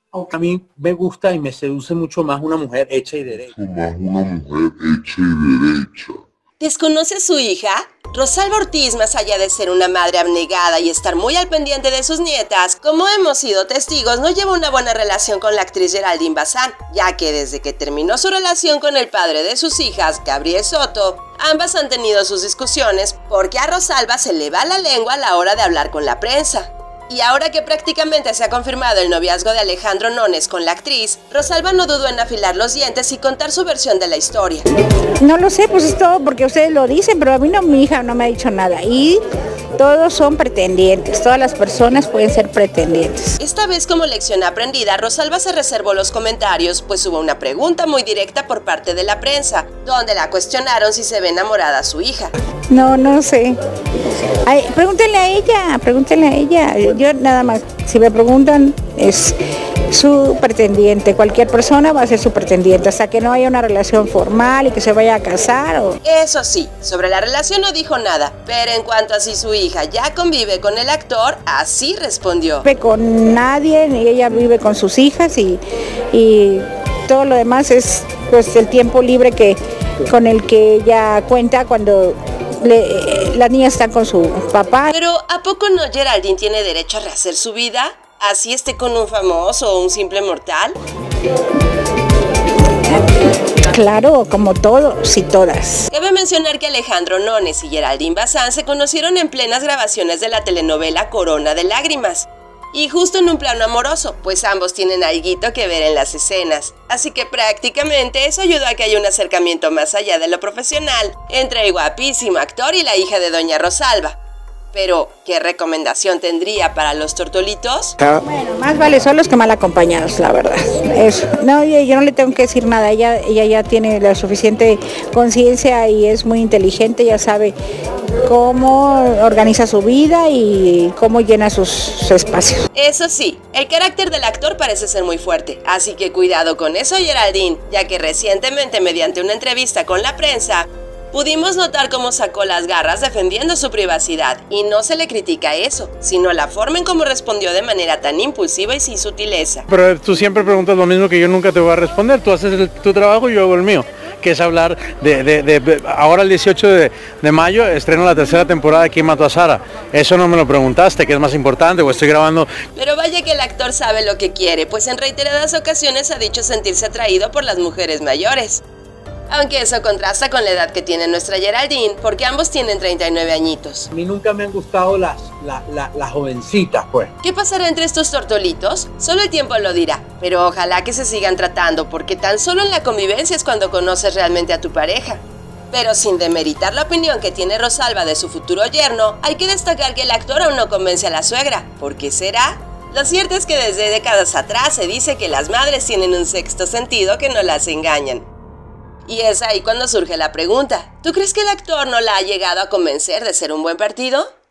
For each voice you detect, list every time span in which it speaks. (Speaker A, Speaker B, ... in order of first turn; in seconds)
Speaker A: 0.3-3.5, 173.9-177.1
Speaker B: 3.3-6.2
Speaker C: 6.6-34.6, 43.4-52.3, 66.0-72.7, 84.9-90.8, 95.9-114.2, 114.7-118.0, 132.7-149.7, 162.8-168.6, 169.3-173.9, 177.2-198.3, 199.1-204.3
Speaker D: 35.2-39.2, 39.8-43.4, 52.7-53.5, 54.5-59.4, 59.9-66.0, 72.6-75.6, 76.1-84.9, 93.7-95.9, 118.0-127.5, 128.2-132.7
Speaker E: 149.7-162.5